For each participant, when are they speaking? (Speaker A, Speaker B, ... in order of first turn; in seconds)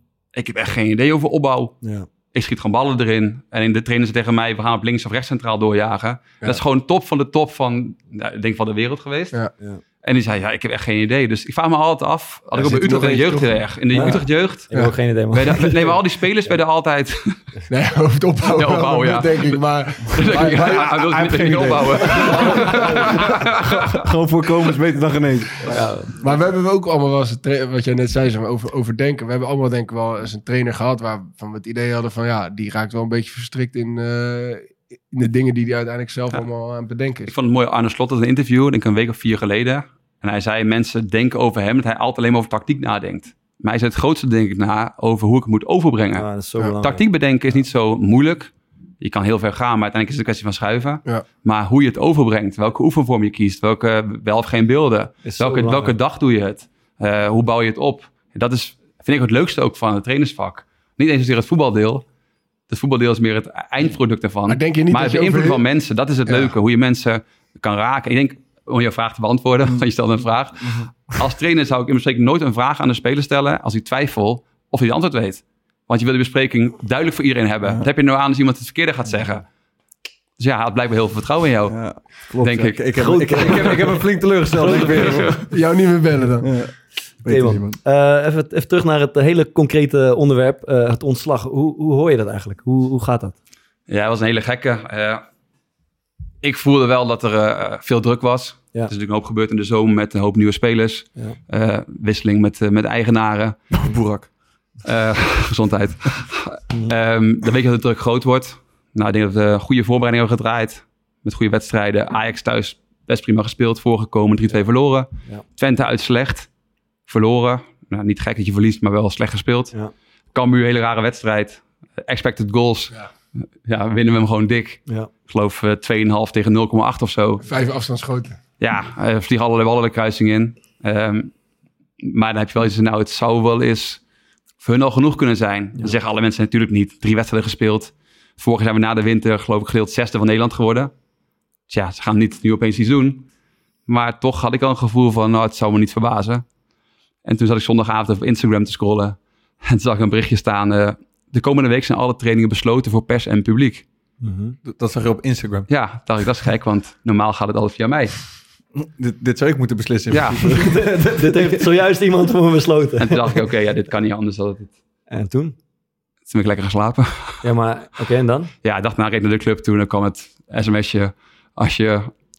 Speaker A: 0.3-1.8, 2.3-9.4, 10.0-14.7, 15.3-17.4, 18.5-23.9, 37.3-46.3, 46.8-62.0, 62.7-79.5, 80.4-84.0, 84.7-85.4, 93.9-95.2, 96.4-103.8, 104.8-116.5, 117.1-119.8, 120.3-123.0, 123.6-127.4, 128.6-131.3, 132.0-134.0, 134.6-140.9, 141.7-143.3, 143.9-146.4, 147.2-153.8, 155.7-158.3, 160.1-160.6, 163.0-164.7, 166.3-167.4, 168.6-172.1
Speaker B: 12.6-14.2, 17.7-20.9, 26.2-37.3, 64.5-65.6, 66.3-66.5, 85.5-86.5, 127.4-128.4
Speaker C: 13.9-16.0, 22.2-23.1, 25.7-26.2, 46.2-47.0, 55.2-56.0, 83.0-85.4, 87.3-93.4, 154.2-154.6, 160.5-163.4, 165.1-165.6, 167.4-168.5
Speaker D: 20.3-25.9, 81.7-85.4, 86.4-87.8, 103.8-104.3, 154.7-155.7, 158.8-161.7